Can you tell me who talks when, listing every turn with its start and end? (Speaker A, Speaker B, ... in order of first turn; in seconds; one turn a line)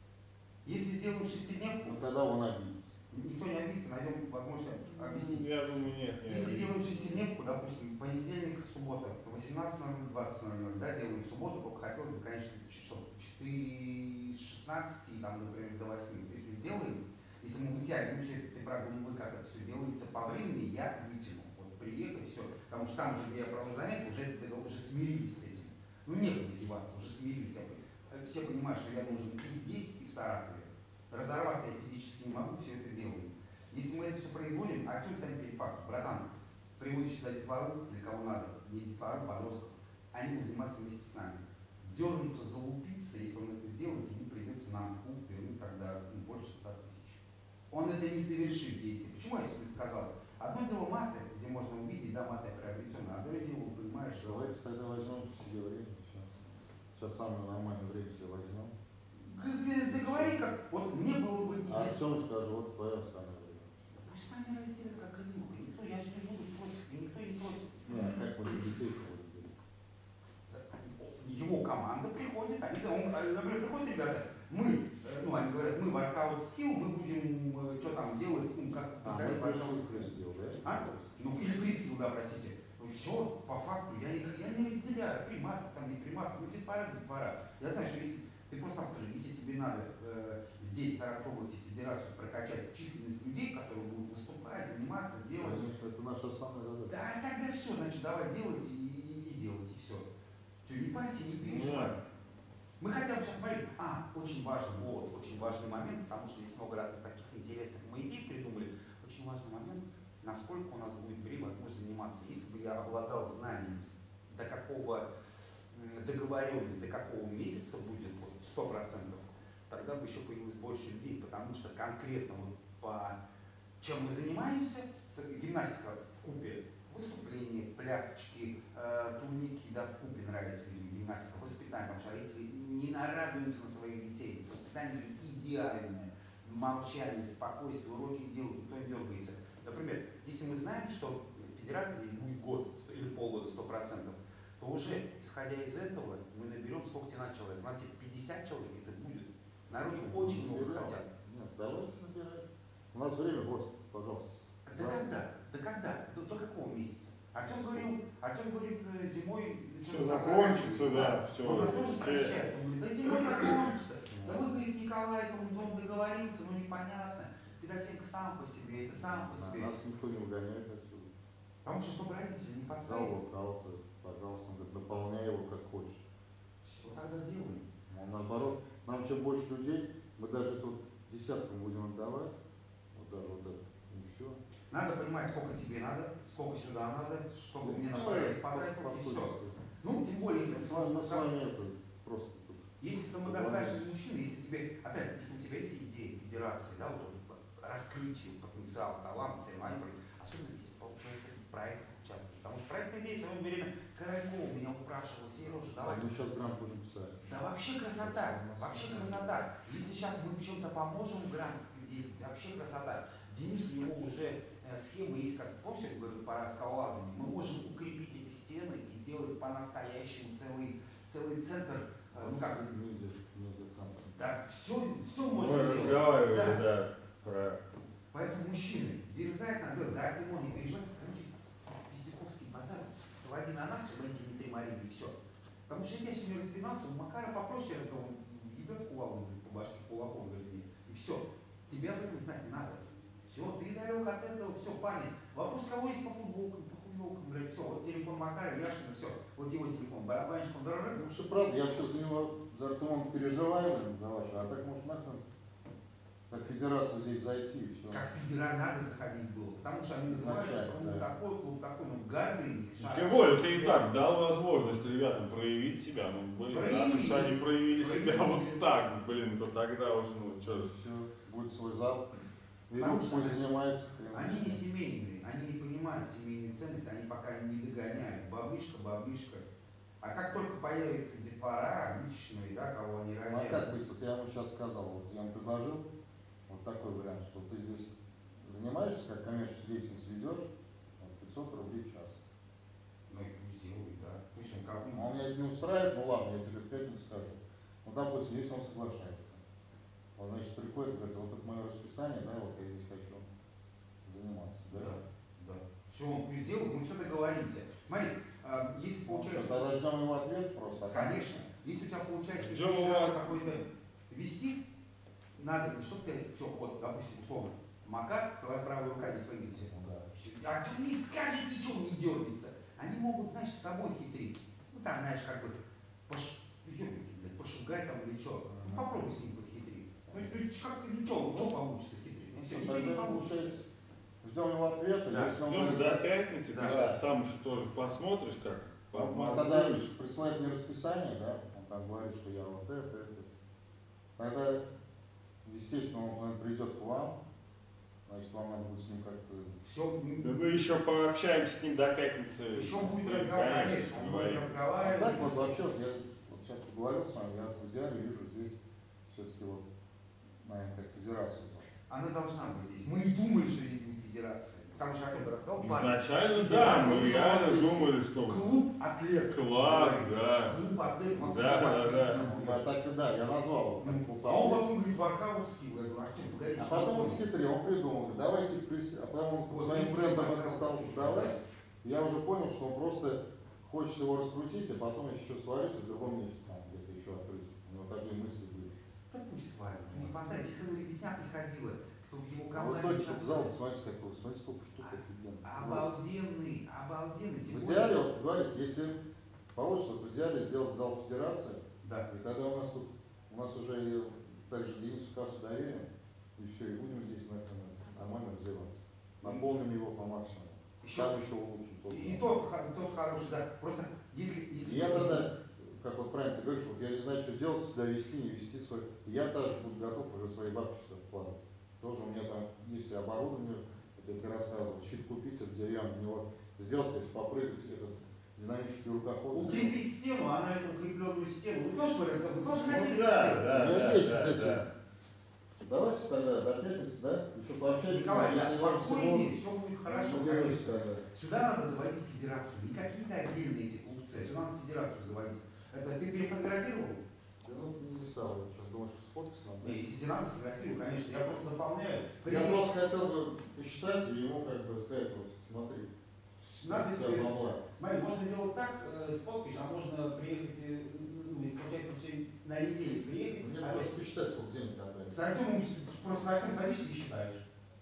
Speaker A: 0.6-2.0
Speaker B: 1.8-3.0
Speaker A: 3.1-5.5
Speaker C: 4.9-7.2
Speaker A: 6.2-54.5
Speaker B: 54.2-58.7
Speaker A: 59.1-62.0
Speaker B: 59.8-60.4
Speaker B: 61.7-63.9
Speaker A: 64.0-67.9
Speaker B: 67.9-69.5
Speaker A: 70.5-95.7
Speaker B: 79.0-81.2
Speaker B: 95.4-96.9
Speaker A: 96.9-100.1
Speaker A: 100.6-102.0
Speaker C: 101.4-102.0
Speaker A: 102.8-115.1
Speaker A: 115.7-123.2
Speaker A: 123.8-151.1
Speaker B: 149.9-155.1
Speaker A: 154.7-169.7
Speaker C: 159.8-162.4
Speaker B: 164.1-164.4
Speaker B: 169.3-171.1
Speaker A: 171.6-173.1
Speaker B: 172.8-176.0
Speaker A: 176.6-177.6
Speaker B: 177.9-182.3
Speaker B: 182.9-184.4
Speaker A: 184.7-191.3
Speaker B: 187.6-189.6
Speaker B: 190.4-193.9
Speaker A: 192.8-206.1
Speaker B: 205.8-207.3
Speaker A: 207.2-222.7
Speaker B: 208.0-209.4
Speaker B: 222.1-224.2
Speaker A: 224.1-226.6
Speaker C: 225.3-227.6
Speaker A: 228.1-235.1
Speaker A: 235.7-251.0
Speaker B: 250.9-255.2
Speaker B: 256.3-258.1
Speaker A: 257.9-263.9
Speaker B: 260.1-261.1
Speaker C: 262.8-270.7
Speaker A: 266.5-268.6
Speaker B: 270.4-272.1
Speaker B: 272.7-274.6
Speaker A: 272.8-273.4
Speaker A: 274.1-279.5
Speaker A: 280.0-283.8
Speaker B: 283.2-285.9
Speaker B: 286.5-292.2
Speaker A: 293.1-295.1
Speaker B: 294.9-299.4
Speaker B: 300.1-303.2
Speaker B: 304.0-305.0
Speaker A: 304.7-309.7
Speaker B: 309.1-311.3
Speaker A: 310.8-314.6
Speaker C: 312.4-313.4
Speaker A: 315.4-333.6
Speaker B: 319.7-320.1
Speaker B: 328.5-329.1
Speaker B: 332.4-333.7
Speaker B: 334.2-336.0
Speaker C: 335.4-339.9
Speaker A: 336.5-336.9
Speaker B: 338.9-343.3
Speaker B: 344.2-344.6
Speaker B: 345.4-347.2
Speaker B: 348.1-349.6
Speaker A: 349.6-350.4
Speaker C: 350.2-354.7
Speaker A: 352.5-355.6
Speaker B: 354.8-359.7
Speaker B: 360.4-361.6
Speaker A: 361.9-372.6
Speaker C: 365.6-368.4
Speaker C: 369.3-370.6
Speaker C: 371.1-372.2
Speaker B: 372.2-374.6
Speaker A: 373.8-377.2
Speaker B: 376.6-388.7
Speaker A: 379.5-381.4
Speaker A: 389.1-393.5
Speaker B: 392.5-395.9
Speaker A: 394.8-397.9
Speaker B: 397.5-399.0
Speaker B: 399.5-412.3
Speaker A: 401.8-402.1
Speaker A: 410.8-411.1
Speaker A: 411.9-415.3
Speaker B: 414.6-429.7
Speaker A: 429.3-433.5
Speaker C: 432.5-434.6
Speaker B: 433.4-434.7
Speaker B: 435.6-439.3
Speaker A: 437.5-447.0
Speaker B: 439.9-441.0
Speaker B: 447.4-449.8
Speaker A: 449.6-452.8
Speaker B: 452.2-458.0
Speaker A: 456.5-463.9
Speaker B: 463.4-465.2
Speaker A: 465.1-467.4